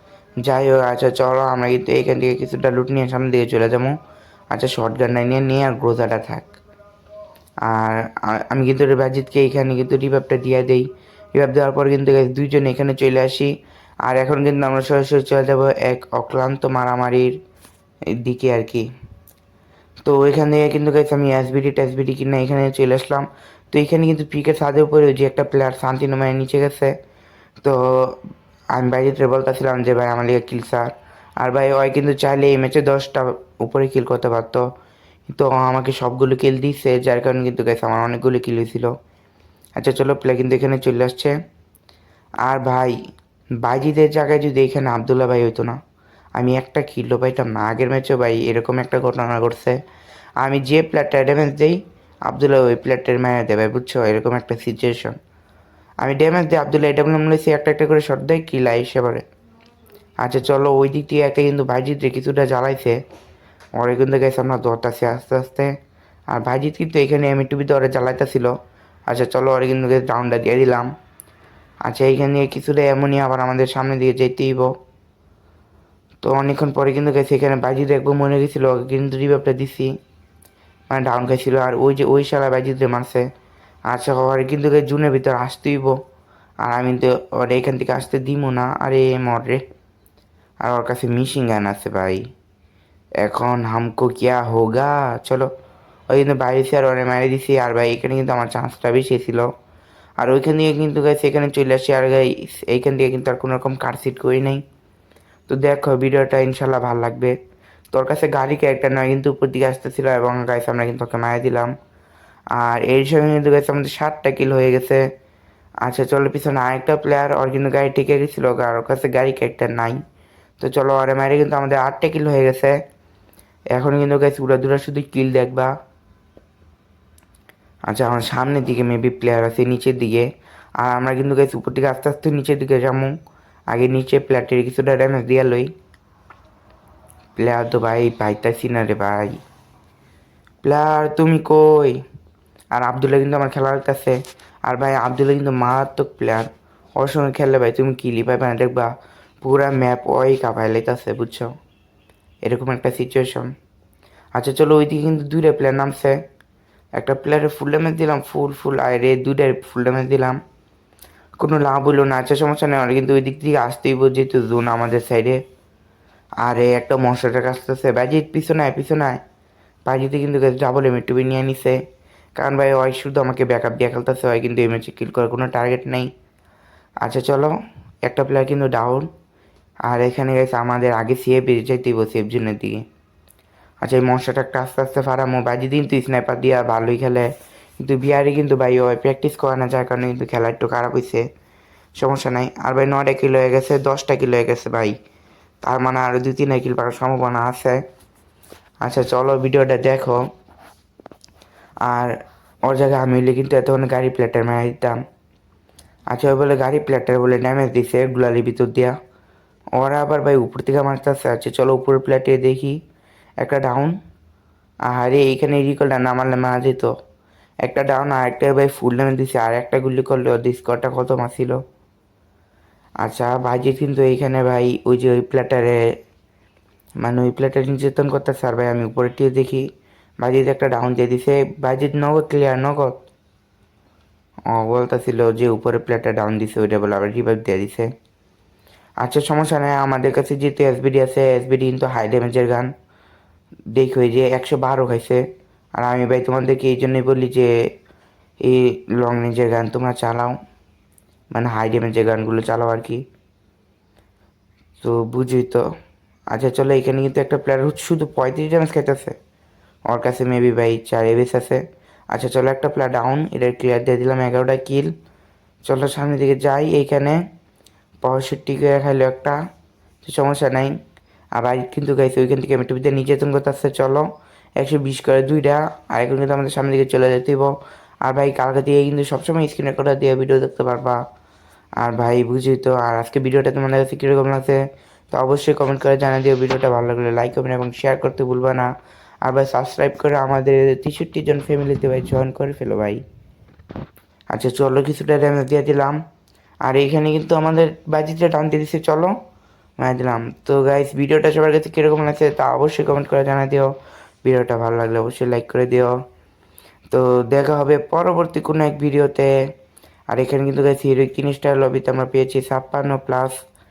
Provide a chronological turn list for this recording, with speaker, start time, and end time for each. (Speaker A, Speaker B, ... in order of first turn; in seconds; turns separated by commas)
Speaker A: 0.4-4.0, Speaker A: 4.5-6.6, Speaker A: 7.6-17.4, Speaker A: 18.1-18.9, Speaker A: 20.0-26.9, Speaker A: 27.6-34.7, Speaker A: 35.3-38.9, Speaker A: 39.8-41.4, Speaker A: 42.4-43.0, Speaker A: 43.6-45.8, Speaker A: 46.3-49.8, Speaker A: 50.4-55.1, Speaker A: 56.0-59.2, Speaker A: 60.2-63.0, Speaker A: 63.8-65.8, Speaker A: 66.3-68.5, Speaker A: 69.1-70.9, Speaker A: 71.8-74.7, Speaker A: 76.2-79.9, Speaker A: 80.9-83.3, Speaker A: 83.9-86.0, Speaker A: 86.6-89.6, Speaker A: 90.6-92.3, Speaker A: 93.2-95.5, Speaker A: 96.1-99.5, Speaker A: 100.2-104.6, Speaker A: 105.5-107.4, Speaker A: 107.9-111.7, Speaker A: 112.5-115.0, Speaker A: 115.8-120.0, Speaker A: 120.6-122.8, Speaker A: 123.7-125.7, Speaker A: 127.9-130.3, Speaker A: 130.8-133.1, Speaker A: 133.7-135.7, Speaker A: 137.3-139.4, Speaker A: 140.6-142.0, Speaker A: 142.7-151.5, Speaker A: 152.4-153.5, Speaker A: 154.3-156.2, Speaker A: 156.9-160.4, Speaker A: 161.4-165.4, Speaker A: 166.4-169.2, Speaker A: 169.8-171.8, Speaker A: 172.3-176.1, Speaker A: 177.0-179.1, Speaker A: 179.8-182.8, Speaker A: 183.8-191.2, Speaker A: 192.0-194.9, Speaker A: 195.6-197.8, Speaker A: 198.8-200.2, Speaker A: 201.8-205.0, Speaker A: 206.1-209.0, Speaker A: 209.7-212.8, Speaker A: 213.4-214.0, Speaker A: 214.8-216.9, Speaker A: 217.6-221.6, Speaker A: 223.0-225.9, Speaker A: 227.0-229.7, Speaker A: 230.2-232.9, Speaker A: 234.5-237.9, Speaker A: 239.0-242.7, Speaker A: 243.7-247.5, Speaker A: 248.4-250.4, Speaker A: 251.3-253.0, Speaker A: 254.8-255.7, Speaker A: 256.3-259.1, Speaker A: 259.9-264.9, Speaker A: 265.6-267.2, Speaker A: 268.0-269.4, Speaker A: 270.0-270.8, Speaker A: 271.3-281.0, Speaker A: 281.8-288.7, Speaker A: 289.2-293.0, Speaker A: 294.3-296.0, Speaker A: 296.6-299.1, Speaker A: 299.8-306.0, Speaker A: 306.9-309.3, Speaker A: 310.1-313.4